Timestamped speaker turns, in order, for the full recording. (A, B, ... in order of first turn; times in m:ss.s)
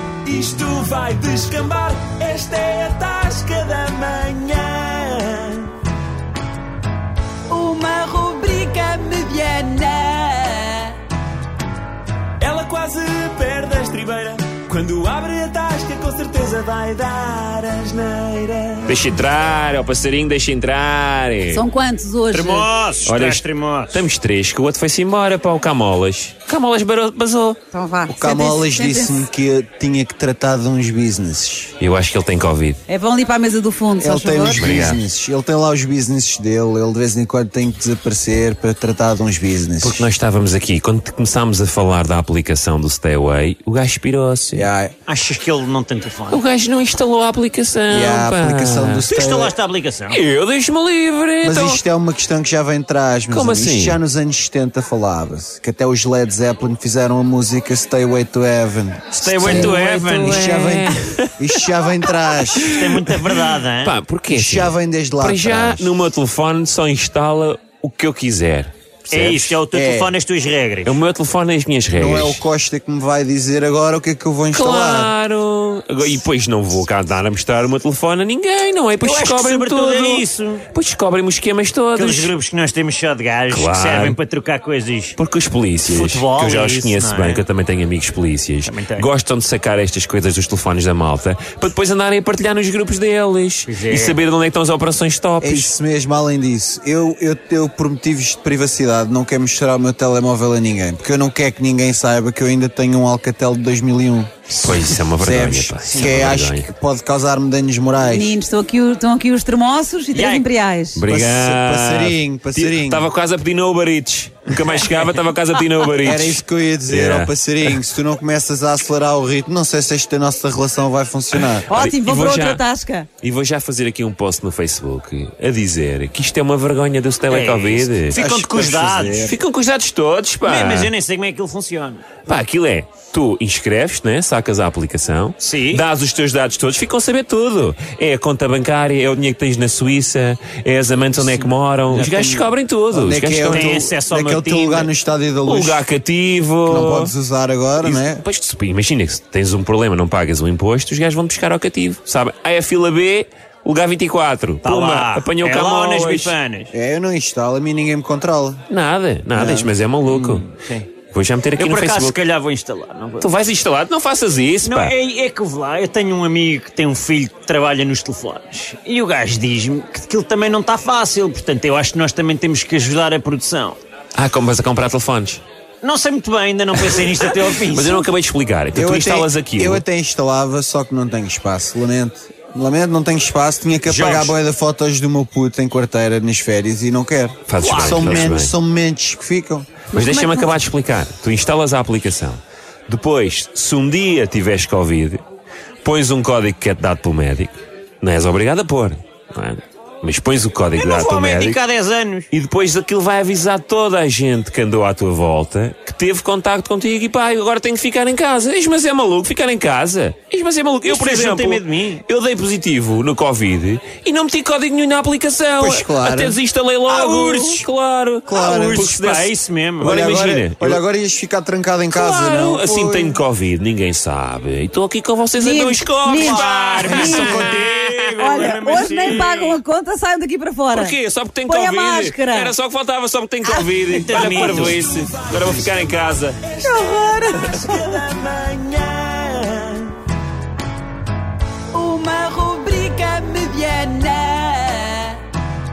0:00.3-0:05.7 A
0:00.3-0:01.9 B
0:07.5-0:11.0 C
0:12.4-0:18.8 A
0:12.9-0:13.9 B
0:18.8-0:21.6 B
0:21.5-0:22.7 C
0:22.3-0:24.0 D
0:23.0-0:27.6 B
0:27.7-0:29.3 C
0:28.1-0:31.7 E
0:31.8-0:32.8 B
0:32.9-0:34.6 C
0:34.0-0:40.1 E
0:34.5-0:35.0 B
0:39.8-0:44.7 B
0:44.5-0:44.9 E
0:45.0-0:46.4 D
0:46.3-0:49.0 B
0:47.9-0:49.5 E
0:49.1-0:50.2 D
0:50.1-0:51.8 B
0:51.4-1:02.8 E
0:53.3-0:54.0 B
0:59.2-1:00.6 D
0:59.2-1:01.6 B
1:02.4-1:03.1 B
1:02.7-1:04.0 D
1:03.8-1:09.6 B
1:04.3-1:06.0 E
1:09.1-1:11.0 D
1:09.7-1:10.1 E
1:10.8-1:12.4 B
1:11.9-1:15.1 E
1:14.5-1:22.3 B
1:19.0-1:20.6 D
1:21.9-1:25.2 D
1:23.5-1:24.2 B
1:25.2-1:35.7 B
1:25.8-1:27.4 D
1:28.6-1:29.1 D
1:33.6-1:34.2 D
1:35.4-1:44.5 E
1:44.6-1:46.7 B
1:45.2-1:48.4 E
1:48.0-1:51.0 C
1:50.1-1:50.5 D
1:50.9-1:57.8 B
1:51.1-1:53.1 E
1:54.6-1:55.1 D
1:56.0-2:01.7 E
2:01.3-2:02.6 B
2:01.7-2:03.1 C
2:03.2-2:08.2 B
2:07.3-2:09.3 D
2:08.1-2:09.4 E
2:09.2-2:10.9 B
2:10.4-2:12.1 D
2:12.2-2:23.9 B
2:15.4-2:15.8 D
2:21.2-2:22.5 D
2:22.9-2:25.8 E
2:23.5-2:24.9 D
2:25.4-2:27.1 B
2:26.6-2:28.2 E
2:27.8-2:36.3 B
2:34.6-2:36.7 D
2:36.7-2:38.6 E
2:38.7-2:40.5 B
2:39.3-2:39.7 E
2:40.0-2:40.9 D
2:41.1-2:42.2 B
2:41.6-2:43.3 D
2:43.2-2:44.9 B
2:44.6-2:53.8 D
2:54.1-2:55.4 B
2:55.8-2:58.1 D
2:56.8-2:59.8 B
2:58.7-3:09.8 E
3:03.8-3:04.3 B
3:07.5-3:08.5 B
3:07.6-3:08.4 D
3:09.9-3:15.2 B
3:09.9-3:10.5 C
3:15.8-3:21.6 B
3:20.7-3:22.3 D
3:22.3-3:40.8 B
3:30.8-3:32.0 D
3:35.6-3:36.4 E
3:36.9-3:37.6 D
3:38.3-3:38.9 E
3:38.3-3:39.9 D
3:39.8-3:43.2 E
3:41.9-3:48.4 B
3:45.4-3:47.5 C
3:46.1-3:49.6 D
3:46.8-3:47.6 E
3:48.2-3:52.5 C
3:50.7-3:56.6 B
3:53.4-3:54.6 C
3:53.9-3:54.8 D
3:54.7-3:55.1 A
3:56.6-3:58.1 C
3:56.8-3:59.9 A
3:57.3-3:57.7 B
4:01.7-4:05.2 C